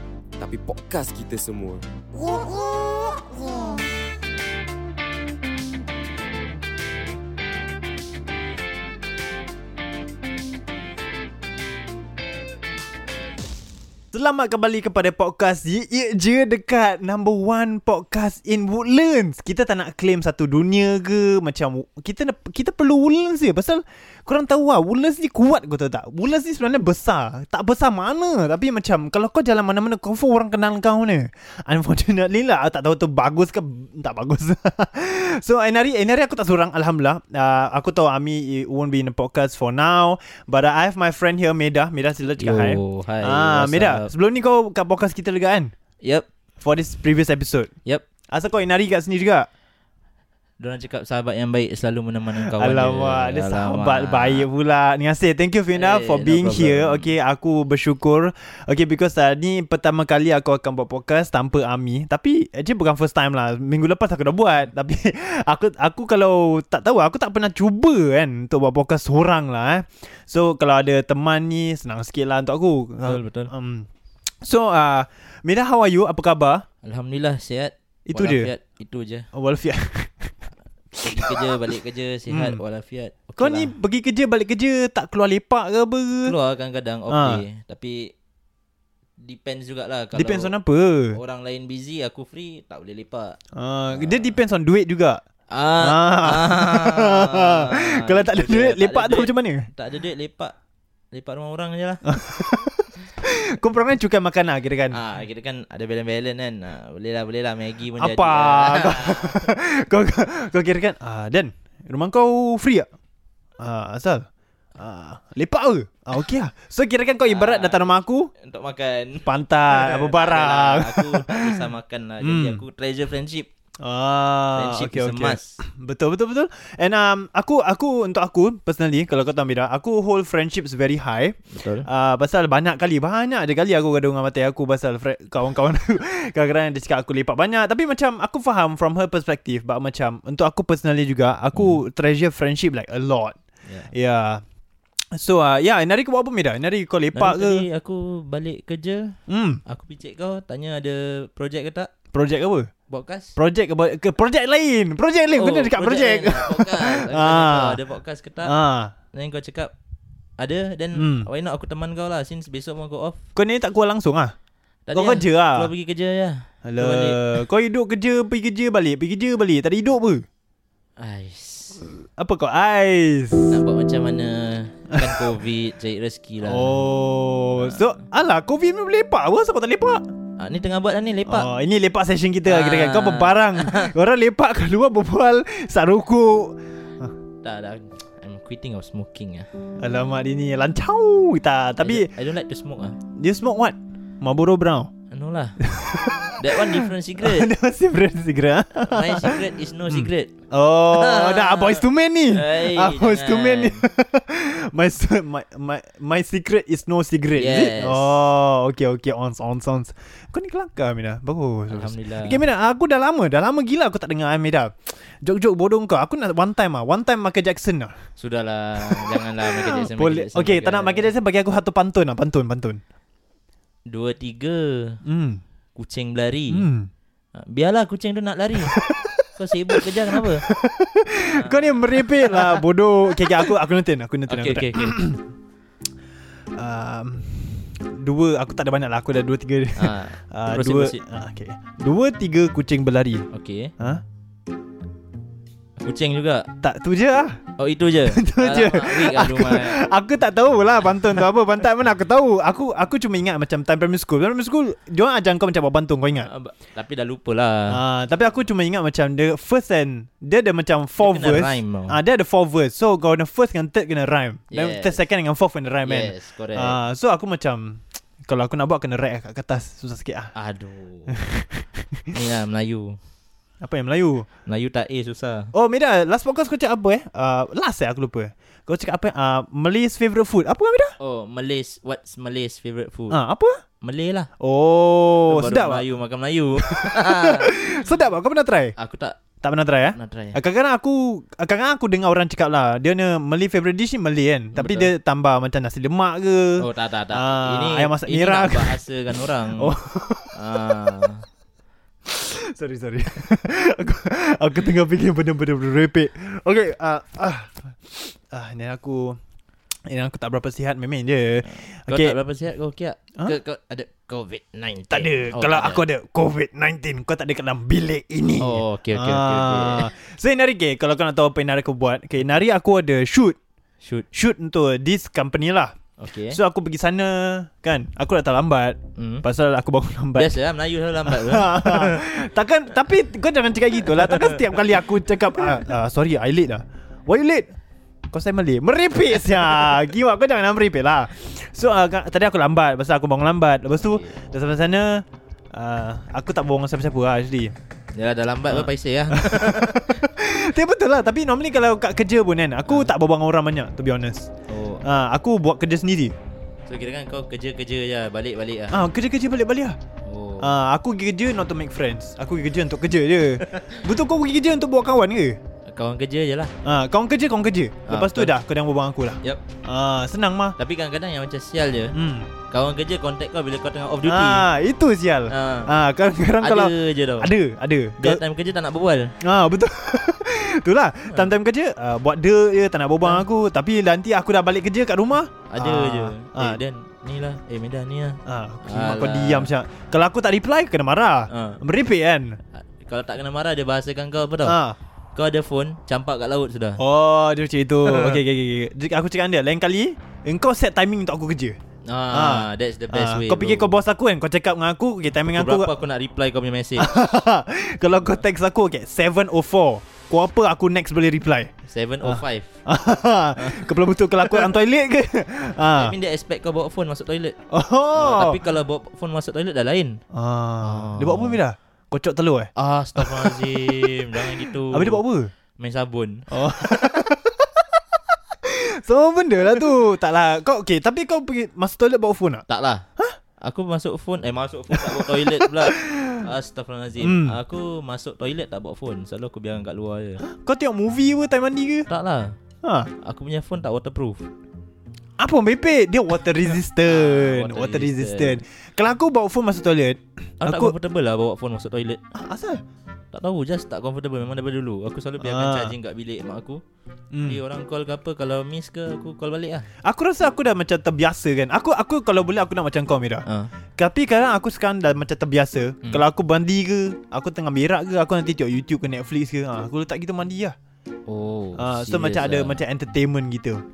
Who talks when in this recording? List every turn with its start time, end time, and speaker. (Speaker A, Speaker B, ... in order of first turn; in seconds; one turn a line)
Speaker A: 0.4-3.7
Speaker B: 14.1-45.7
Speaker C: 42.4-44.1
Speaker C: 46.0-46.3
Speaker B: 46.6-47.7
Speaker B: 48.3-49.5
Speaker C: 50.6-54.5
Speaker B: 52.3-73.9
Speaker C: 55.7-57.1
Speaker C: 73.0-73.5
Speaker B: 74.4-76.7
Speaker C: 76.8-79.3
Speaker B: 78.1-78.5
Speaker B: 79.3-80.3
Speaker C: 81.0-83.7
Speaker B: 81.1-81.5
Speaker B: 82.3-82.6
Speaker B: 83.4-86.3
Speaker C: 86.2-88.1
Speaker B: 87.1-87.5
Speaker C: 89.2-90.5
Speaker B: 90.1-91.2
Speaker C: 91.1-93.4
Speaker B: 93.5-95.2
Speaker C: 93.9-94.3
Speaker C: 95.5-100.5
Speaker B: 95.8-99.7
Speaker C: 101.1-102.0
Speaker B: 102.1-105.0
Speaker C: 104.9-109.5
Speaker B: 108.0-112.9
Speaker B: 113.6-118.3
Speaker C: 117.3-123.5
Speaker B: 119.2-121.6
Speaker B: 122.2-122.6
Speaker B: 123.8-143.4
Speaker C: 124.5-125.6
Speaker C: 131.5-131.9
Speaker C: 143.7-143.9
Speaker B: 143.9-144.4
Speaker B: 145.2-147.7
Speaker C: 147.1-151.9
Speaker B: 149.3-149.6
Speaker B: 152.1-152.7
Speaker C: 152.9-153.4
Speaker B: 153.4-157.8
Speaker C: 155.3-158.5
Speaker B: 158.4-158.9
Speaker C: 159.1-159.7
Speaker C: 160.4-163.2
Speaker B: 160.9-161.3
Speaker B: 163.3-164.3
Speaker C: 164.9-167.4
Speaker B: 164.9-165.7
Speaker B: 166.7-170.3
Speaker C: 171.0-171.9
Speaker B: 172.0-173.6
Speaker C: 173.5-176.8
Speaker B: 175.0-175.3
Speaker B: 176.4-180.0
Speaker C: 177.5-178.0
Speaker C: 180.4-181.5
Speaker B: 181.3-187.1
Speaker C: 182.4-183.9
Speaker C: 187.4-189.5
Speaker B: 189.8-192.1
Speaker C: 191.8-193.0
Speaker B: 193.2-194.9
Speaker C: 195.1-195.7
Speaker B: 195.6-217.9
Speaker C: 196.4-197.5
Speaker C: 198.8-200.3
Speaker C: 200.9-203.8
Speaker C: 207.3-208.1
Speaker C: 211.7-212.4
Speaker C: 218.2-221.1
Speaker B: 218.8-222.8
Speaker C: 223.9-225.0
Speaker B: 225.1-225.4
Speaker C: 225.8-226.7
Speaker B: 226.5-226.9
Speaker C: 227.4-228.8
Speaker B: 228.6-235.2
Speaker C: 229.4-230.4
Speaker C: 231.3-232.6
Speaker C: 234.3-235.0
Speaker B: 236.6-243.3
Speaker C: 239.8-241.0
Speaker C: 243.3-243.7
Speaker C: 245.8-246.5
Speaker B: 246.6-247.4
Speaker C: 247.6-249.8
Speaker B: 248.1-256.3
Speaker C: 256.2-257.8
Speaker B: 257.7-270.3
Speaker C: 261.0-262.0
Speaker C: 264.5-265.0
Speaker C: 265.9-266.8
Speaker C: 270.4-271.2
Speaker B: 271.1-272.2
Speaker C: 272.1-273.0
Speaker B: 273.6-274.3
Speaker C: 274.5-275.5
Speaker B: 275.5-280.9
Speaker C: 281.0-283.2
Speaker B: 283.1-283.6
Speaker C: 283.8-284.3
Speaker B: 284.4-285.9
Speaker C: 285.3-287.7
Speaker B: 286.6-288.8
Speaker C: 288.8-289.2
Speaker B: 289.4-301.1
Speaker C: 289.9-290.4
Speaker C: 294.5-294.9
Speaker C: 296.6-299.7
Speaker C: 300.4-301.2
Speaker B: 302.1-309.2
Speaker B: 309.9-312.1
Speaker C: 311.4-315.8
Speaker B: 314.9-323.4
Speaker C: 318.4-319.9
Speaker B: 324.1-325.8
Speaker C: 326.0-326.4
Speaker B: 326.3-330.4
Speaker C: 329.0-329.2
Speaker C: 330.1-332.1
Speaker B: 331.1-337.5
Speaker C: 333.9-334.6
Speaker B: 338.1-347.6
Speaker C: 343.8-344.2
Speaker C: 347.9-350.1
Speaker B: 348.5-354.3
Speaker C: 354.5-354.8
Speaker B: 354.8-356.1
Speaker C: 356.7-358.8
Speaker B: 358.7-359.8
Speaker C: 360.1-360.5
Speaker B: 360.4-365.4
Speaker C: 363.4-363.8
Speaker C: 365.7-366.5
Speaker B: 366.6-370.6
Speaker C: 367.9-368.4
Speaker C: 370.6-372.0
Speaker B: 371.9-372.3
Speaker C: 372.5-374.5
Speaker B: 374.1-378.2
Speaker C: 375.3-375.7
Speaker C: 376.4-377.3
Speaker C: 378.0-379.1
Speaker B: 379.2-386.6
Speaker C: 381.1-381.3
Speaker C: 385.5-389.5
Speaker B: 388.3-392.4
Speaker C: 391.3-391.6
Speaker C: 392.5-394.6
Speaker B: 394.4-394.8
Speaker C: 395.1-396.8
Speaker B: 396.8-401.6
Speaker C: 397.9-398.2
Speaker C: 401.9-403.8
Speaker B: 402.1-405.7
Speaker C: 405.3-406.9
Speaker B: 406.8-411.5
Speaker C: 411.7-412.6
Speaker B: 412.0-415.9
Speaker C: 413.4-414.5
Speaker C: 415.7-417.4
Speaker B: 417.5-418.4
Speaker C: 417.9-420.0
Speaker B: 420.1-425.3
Speaker C: 420.6-421.4
Speaker C: 422.6-425.0
Speaker C: 425.6-427.0
Speaker B: 426.3-432.4
Speaker C: 432.5-432.9
Speaker C: 433.4-440.2
Speaker B: 434.7-436.2
Speaker B: 437.0-437.4
Speaker B: 440.2-441.9
Speaker C: 441.9-442.3
Speaker B: 442.6-442.9
Speaker C: 443.0-444.3
Speaker B: 445.2-450.7
Speaker C: 446.9-448.4
Speaker C: 450.4-452.0
Speaker B: 452.1-452.6
Speaker C: 453.1-456.6
Speaker B: 455.2-455.7
Speaker B: 457.1-457.4
Speaker C: 457.2-459.7
Speaker B: 459.8-463.2
Speaker B: 463.8-470.6
Speaker C: 471.1-472.6
Speaker B: 471.6-473.6